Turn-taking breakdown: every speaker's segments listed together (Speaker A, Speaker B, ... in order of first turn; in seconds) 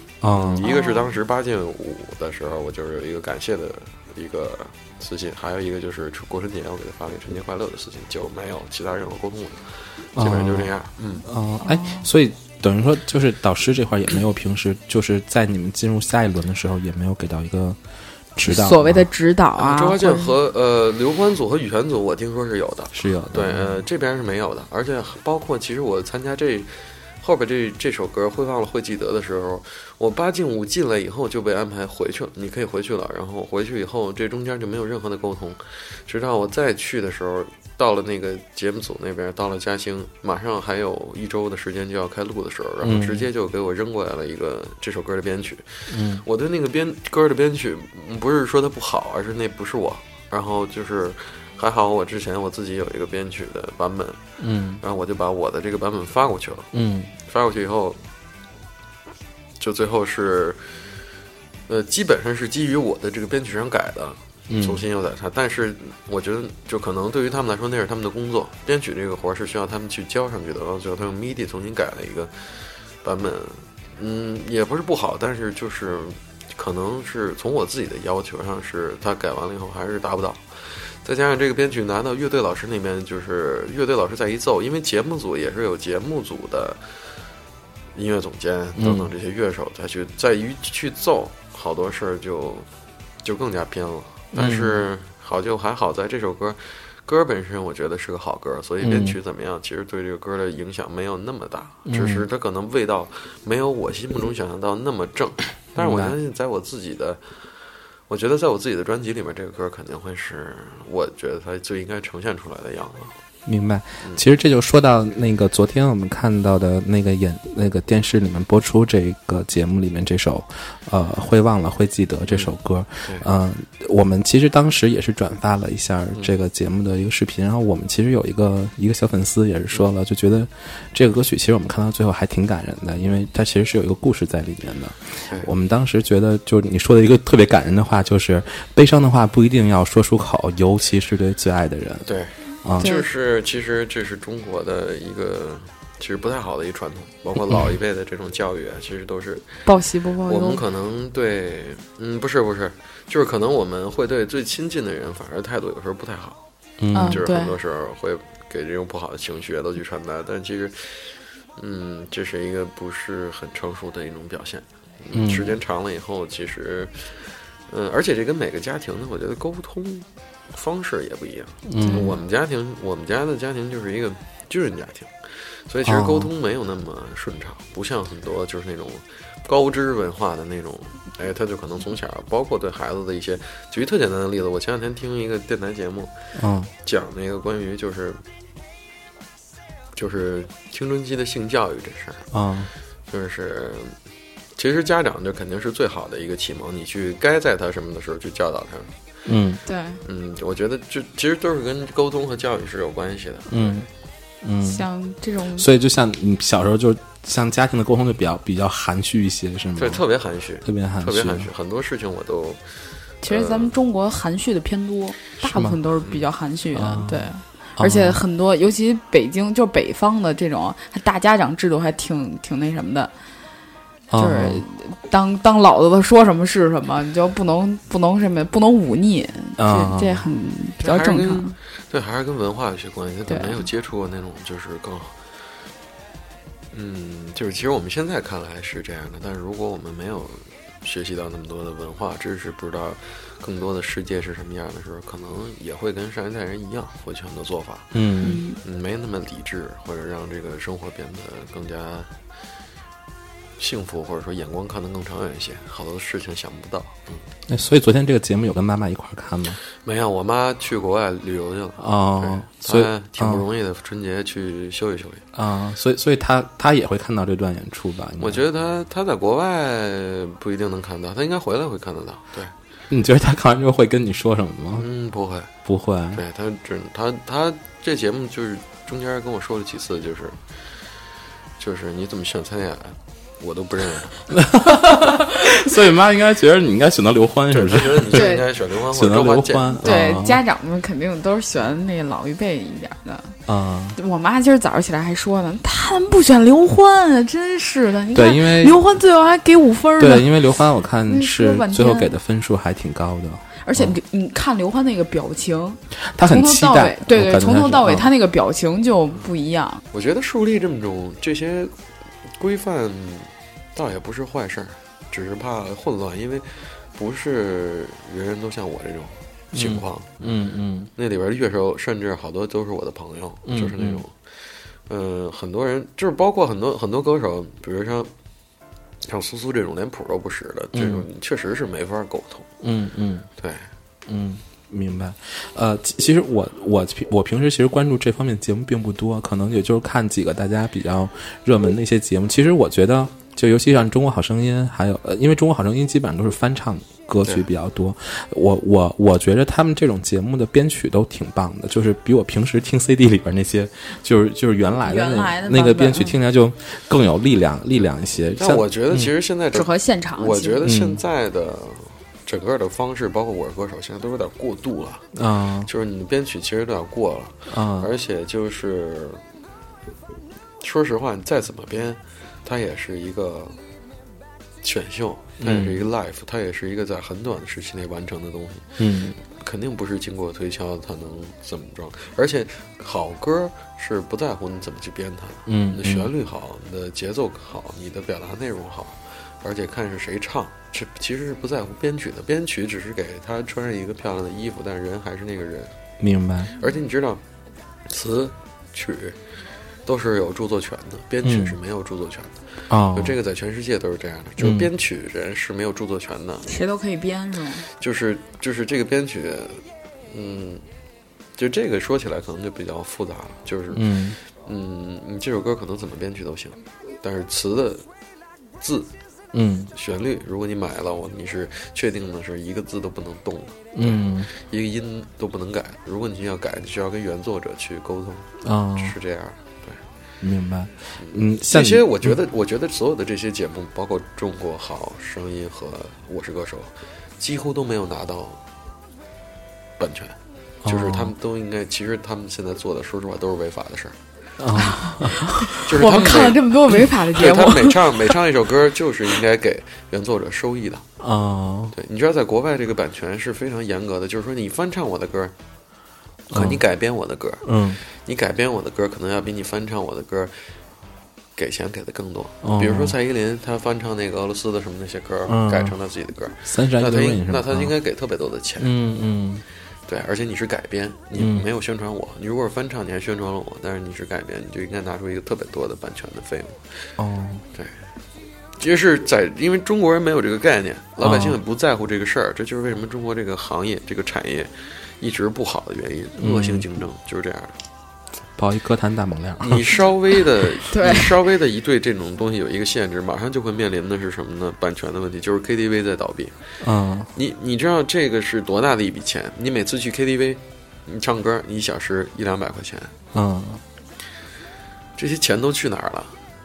Speaker A: 0.2-0.6, 10.2-10.7, 11.2-17.8, 18.3-19.1, 22.9-23.7, 42.8-43.2, 45.9-46.2, 54.4-54.8, 56.7-57.1, 64.5-64.8, 88.8-89.1, 94.3-94.8, 98.8-99.2, 101.8-102.2, 105.8-106.1, 113.5-142.1, 156.8-157.2, 165.1-165.5, 171.7-172.1, 175.8-176.3, 186.3-186.7, 192.3-192.7, 199.2-199.6, 203.5-203.8, 204.4-204.9, 205.5-210.0, 210.6-211.5, 215.4-215.8, 216.7-218.2, 224.1-224.6, 229.6-230.2, 247.9-248.4, 257.5-259.6, 261.8-263.4, 265.3-268.4, 272.9-274.9, 275.6-276.2, 284.3-290.4, 293.5-294.0, 298.1-298.8, 300.0-304.0, 306.1-308.1, 319.5-320.9, 323.5-324.0, 330.7-331.0, 332.6-333.3, 334.1-359.1, 360.6-361.0, 365.1-365.7, 367.5-367.9, 375.4-375.8, 378.8-379.1, 385.5-386.1, 396.0-396.5, 401.2-401.6, 402.7-403.1, 404.4-404.7, 413.7-414.2, 419.3-419.7, 423.8-424.3, 428.4-428.9, 430.2-432.1, 440.6-441.1, 444.4-445.6, 451.0-451.7, 456.3-456.6, 457.4-457.8, 462.4-462.9, 465.3-465.7, 466.4-467.7, 468.6-469.4, 471.2-471.4, 477.0-477.4, 481.0-481.4, 486.2-486.6, 488.4-489.6, 496.6-497.1, 503.1-503.6
Speaker B: 0.3-11.2, 19.6-54.2, 54.8-58.0, 59.6-60.9, 61.7-86.8, 87.9-92.7, 93.2-107.3, 108.1-113.1, 122.3-122.5, 142.0-149.7, 150.2-156.4, 157.0-186.1, 186.8-188.2, 189.9-192.3, 193.1-194.0, 194.6-198.9, 200.0-203.8, 209.8-213.7, 216.0-216.3, 230.8-235.2, 236.7-248.0, 248.6-252.1, 253.6-257.0, 259.8-265.2, 268.2-272.5, 274.8-275.5, 276.1-280.4, 281.6-284.3, 287.5-290.2, 309.9-311.7, 312.3-320.4, 320.9-324.1, 324.9-328.1, 329.1-332.5, 333.4-333.7, 358.4-365.1, 365.6-369.2, 370.6-373.6, 374.6-395.7, 396.6-397.2, 397.9-399.2, 399.9-402.4, 402.9-406.6, 407.8-410.6, 411.4-417.8, 418.6-418.9, 419.7-429.8, 430.9-438.4, 439.8-444.0, 445.1-450.8, 451.7-455.3, 456.3-460.5, 461.4-468.8, 469.9-476.9, 478.6-487.6, 489.4-496.4, 497.1-502.9, 505.0-506.1
Speaker C: 0.6-1.1, 11.6-12.1, 18.4-20.3, 142.8-143.0, 149.6-150.6, 156.9-157.6, 171.8-172.2, 199.7-200.0, 204.6-205.7, 213.2-223.1, 224.2-231.6, 233.3-233.6, 248.2-248.6, 288.1-288.4, 289.8-293.4, 293.9-300.5, 301.1-302.1, 303.6-309.8, 354.8-356.1, 359.5-360.6, 406.4-407.7, 444.6-448.0, 490.7-491.1